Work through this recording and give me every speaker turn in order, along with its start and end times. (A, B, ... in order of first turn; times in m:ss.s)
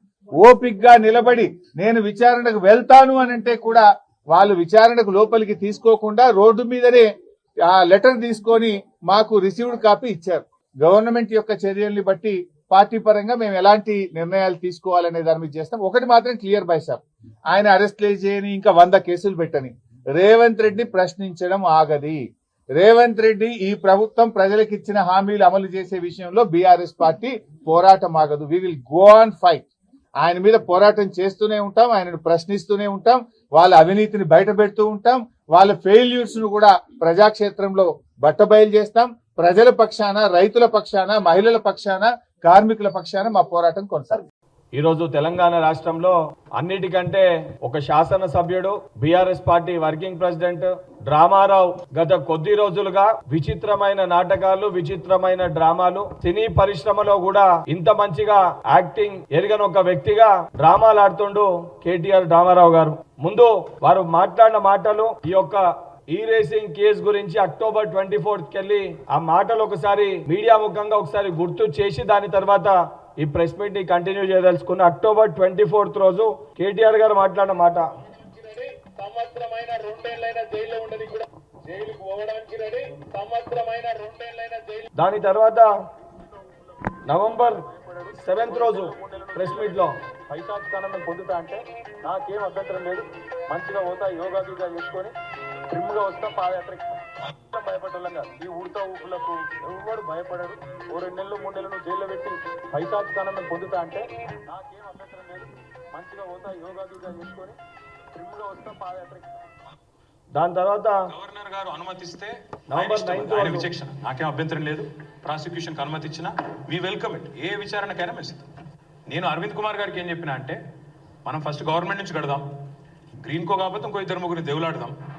0:00.4-0:07.1 A
0:07.6-0:22.2 A
0:22.8-0:29.7 A
0:30.2-0:44.3 A
0:44.8-1:17.9 B
1:18.1-1:24.9 C
1:25.0-1:25.7 B
1:27.1-1:30.0 B
1:27.7-1:28.1 D
1:28.1-1:28.8 E
1:29.3-1:29.9 E
1:30.2-1:35.1 D
1:33.5-1:35.1 C
1:35.7-1:47.6 D
1:35.9-1:36.4 C
1:38.6-1:39.0 C
1:40.2-1:43.9 C
1:48.2-1:49.3 D
1:48.7-1:49.2 C
1:50.4-1:51.0 B
1:51.1-1:58.5 E
1:52.7-1:53.7 B
1:59.1-2:00.6 E
2:01.2-2:02.5 E
2:03.2-2:05.0 E